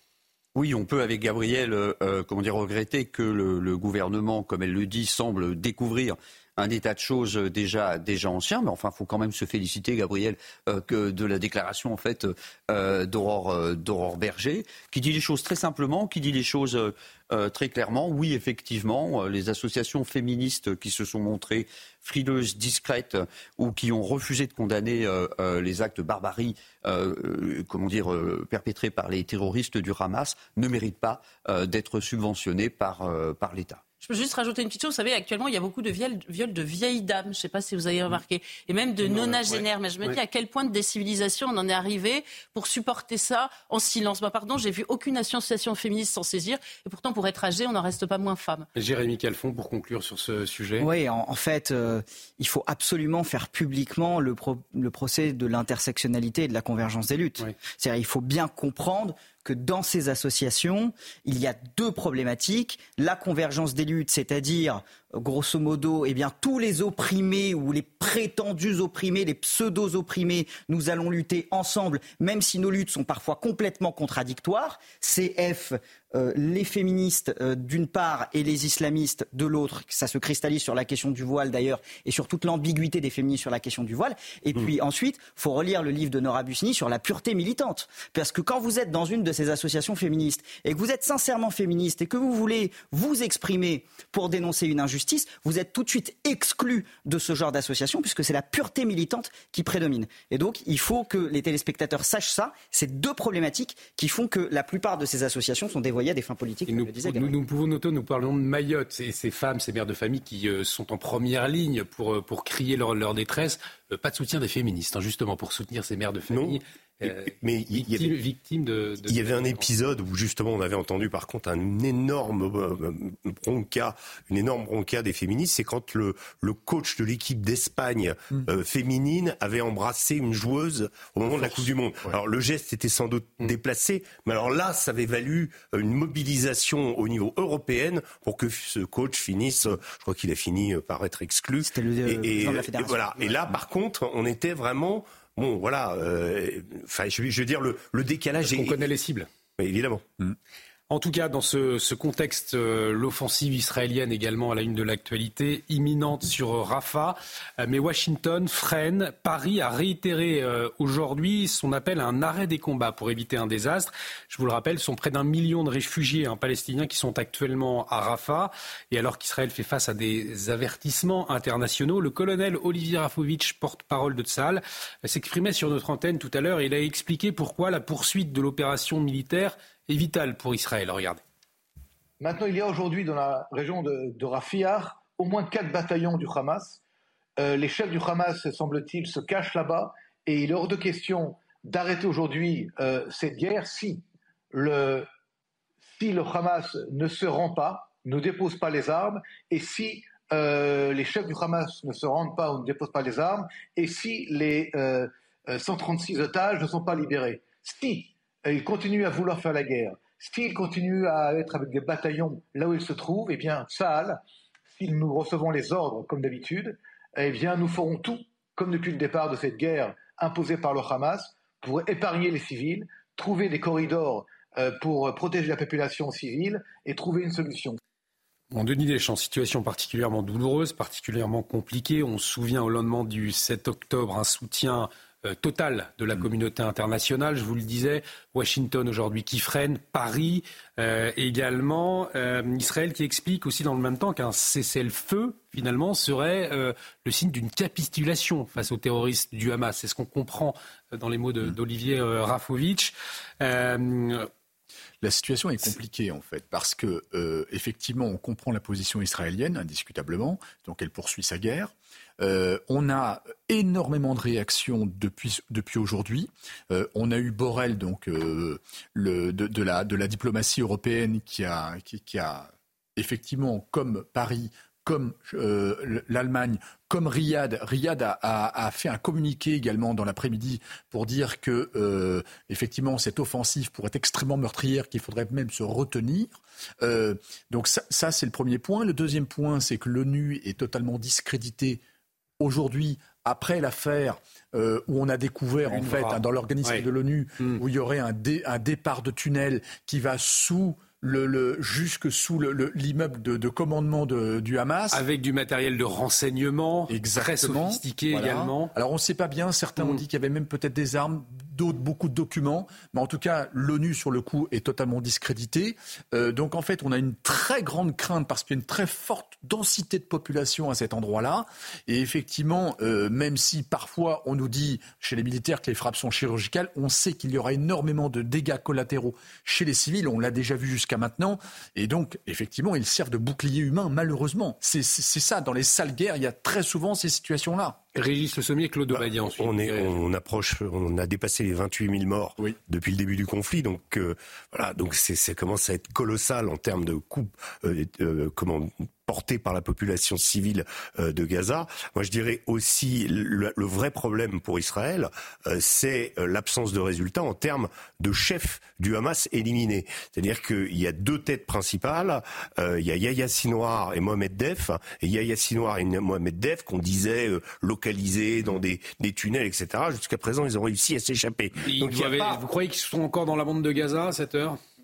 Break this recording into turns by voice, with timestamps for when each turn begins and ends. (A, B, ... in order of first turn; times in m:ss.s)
0:00.6-0:33.8 A
0:34.0-0:48.7 B
0:39.0-0:40.2 C
0:48.8-0:50.9 C
0:50.8-1:47.3 D
1:46.7-1:59.7 C
1:56.3-1:58.1 E
1:59.0-2:28.8 E
2:11.3-2:12.1 F
2:21.6-2:23.4 D
2:28.4-2:29.3 C
2:29.6-2:30.0 E
2:30.9-3:01.2 C
3:02.2-3:06.8 G
3:07.4-3:15.1 G
3:16.0-3:34.2 G
3:34.8-3:47.8 G
3:48.5-4:14.3 C
4:15.0-4:51.8 F
4:52.4-5:05.0 F
4:55.6-4:56.8 C
5:04.9-5:08.7 C
5:06.9-5:37.8 F
5:38.0-5:39.9 C
5:39.2-6:12.4 E
6:11.6-6:14.6 C